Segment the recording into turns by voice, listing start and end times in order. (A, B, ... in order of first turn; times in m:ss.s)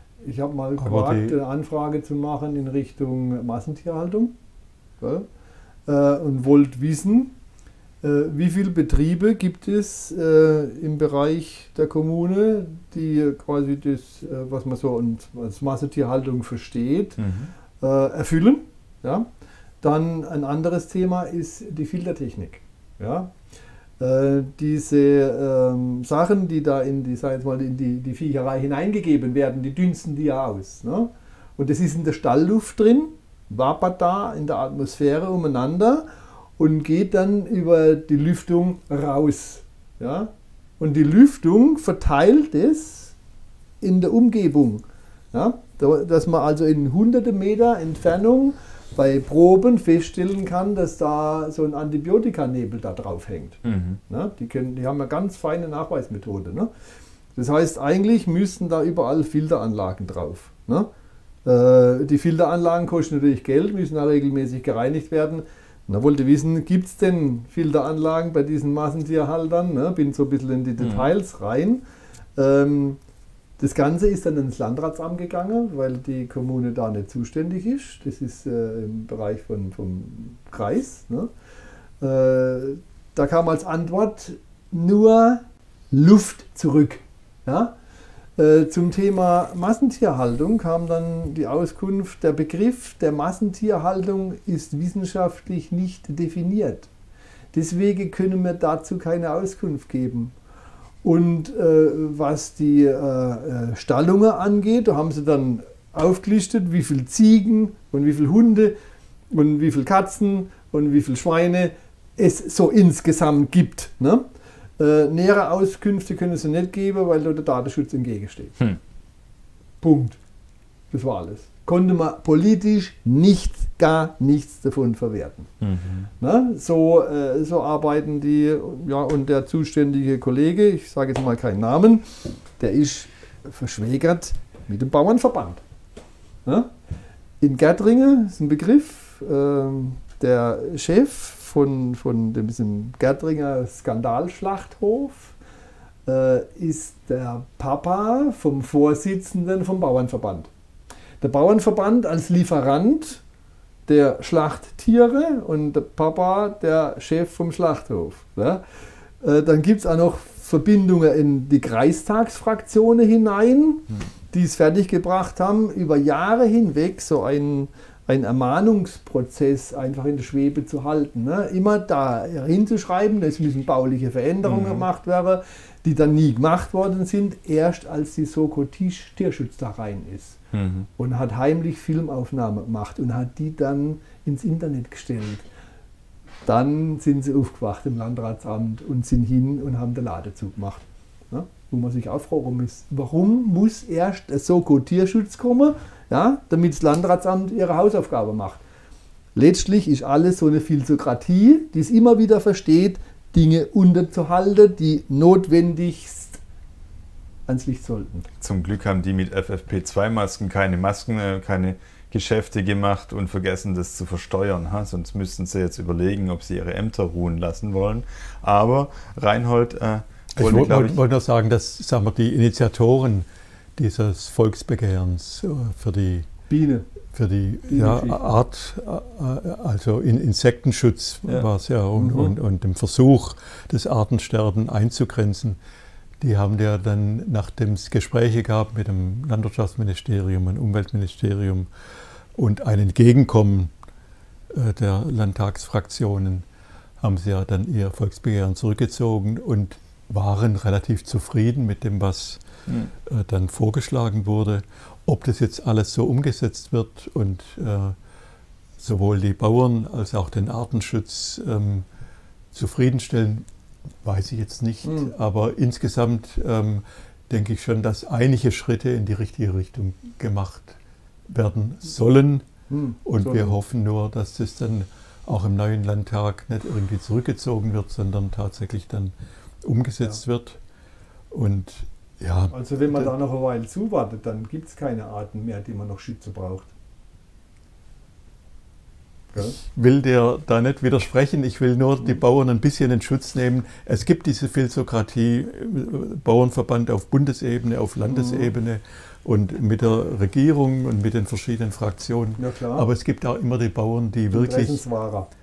0:00.2-0:04.4 A
0:00.8-0:01.4 B
0:05.0-0:05.3 A
0:05.9-0:07.3 A
0:08.0-0:17.2 A
0:17.2-0:17.5 C
0:17.8-0:19.3 A
0:19.8-0:23.3 A
0:24.0-0:36.1 A
0:36.6-0:43.2 A
0:43.8-0:56.7 A
0:53.6-0:54.0 C
0:57.4-1:00.9 A
1:01.4-1:11.8 A
1:10.8-1:11.1 C
1:12.4-1:13.0 A
1:13.6-1:21.3 A
1:22.0-1:27.8 A
1:28.4-1:36.9 A
1:37.5-1:40.3 A
1:41.0-1:48.8 A
1:49.3-1:54.3 A
1:54.8-1:58.6 A
1:59.8-2:00.2 A
2:00.9-2:05.5 A
2:05.6-2:06.1 C
2:06.2-2:15.6 A
2:16.5-2:16.7 A
2:17.4-2:25.4 A
2:26.1-2:30.5 A
2:31.2-2:33.2 A
2:33.9-2:38.6 A
2:39.2-3:00.4 A
2:54.4-2:54.9 C
3:00.5-3:00.9 C
3:01.0-3:05.5 A
3:06.4-3:18.6 A
3:19.4-3:26.4 A
3:27.5-3:28.3 A
3:28.4-3:41.0 C
3:40.4-3:46.3 B
3:46.5-3:46.9 A
3:47.1-3:55.6 B
3:47.7-3:48.2 A
3:52.0-3:52.4 A
3:56.2-4:01.7 B
4:02.4-4:03.7 B
4:04.5-4:06.5 B
4:07.0-4:12.4 B
4:13.0-4:18.0 B
4:18.8-4:21.9 B
4:22.5-4:23.5 B
4:24.0-4:32.5 B
4:24.9-4:25.1 A
4:32.7-4:33.6 A
4:33.0-4:40.6 B
4:41.3-4:43.1 B
4:42.5-4:46.7 A
4:49.4-5:04.8 B
4:58.1-4:58.5 A
5:02.4-5:02.9 A
5:04.3-5:05.3 A